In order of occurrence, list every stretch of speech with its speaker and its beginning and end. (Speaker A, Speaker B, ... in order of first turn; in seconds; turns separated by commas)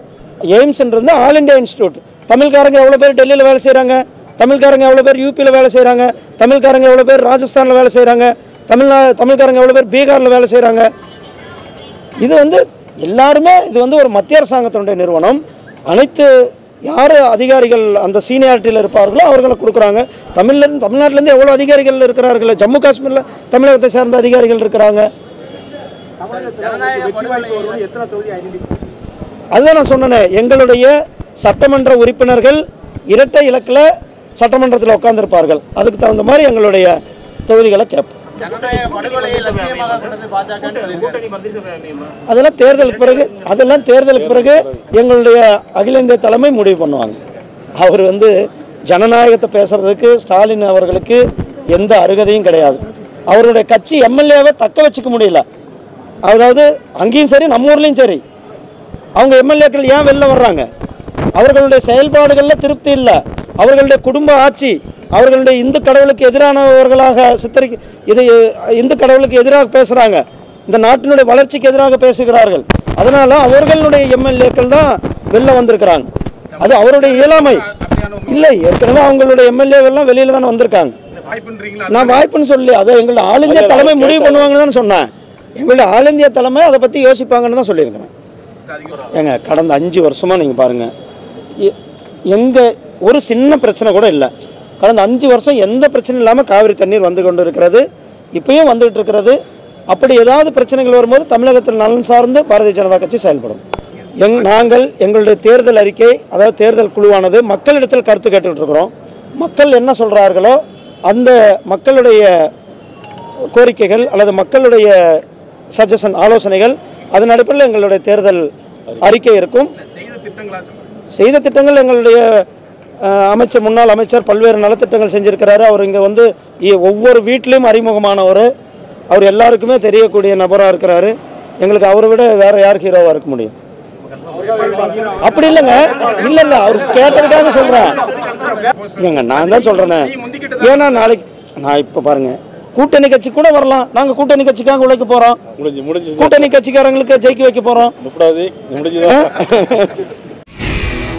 Speaker A: 0.5-10.9, Speaker A: 12.2-16.3, Speaker A: 16.8-25.1, Speaker B: 26.2-28.4, Speaker A: 29.5-38.1, Speaker B: 38.5-40.3, Speaker A: 42.3-47.2, Speaker C: 44.2-44.7, Speaker A: 47.8-48.3, Speaker A: 48.9-55.4, Speaker A: 56.2-58.2, Speaker A: 59.2-60.6, Speaker A: 61.4-77.7, Speaker B: 76.6-78.5, Speaker A: 78.3-81.0, Speaker B: 81.3-82.2, Speaker A: 81.9-88.1, Speaker C: 83.4-84.5, Speaker B: 88.7-89.1, Speaker A: 89.1-90.9, Speaker A: 92.3-97.8, Speaker A: 98.3-99.4, Speaker A: 99.9-103.6, Speaker A: 104.2-112.5, Speaker A: 113.5-115.2, Speaker A: 115.7-118.5, Speaker A: 119.0-119.7, Speaker B: 119.8-120.8, Speaker A: 121.1-122.4, Speaker A: 123.0-128.5, Speaker A: 129.1-133.5, Speaker B: 134.6-135.0, Speaker A: 135.2-138.0, Speaker B: 138.4-141.0, Speaker A: 139.0-145.4, Speaker C: 145.6-146.5, Speaker A: 146.2-147.9, Speaker C: 148.0-149.7, Speaker A: 149.0-149.9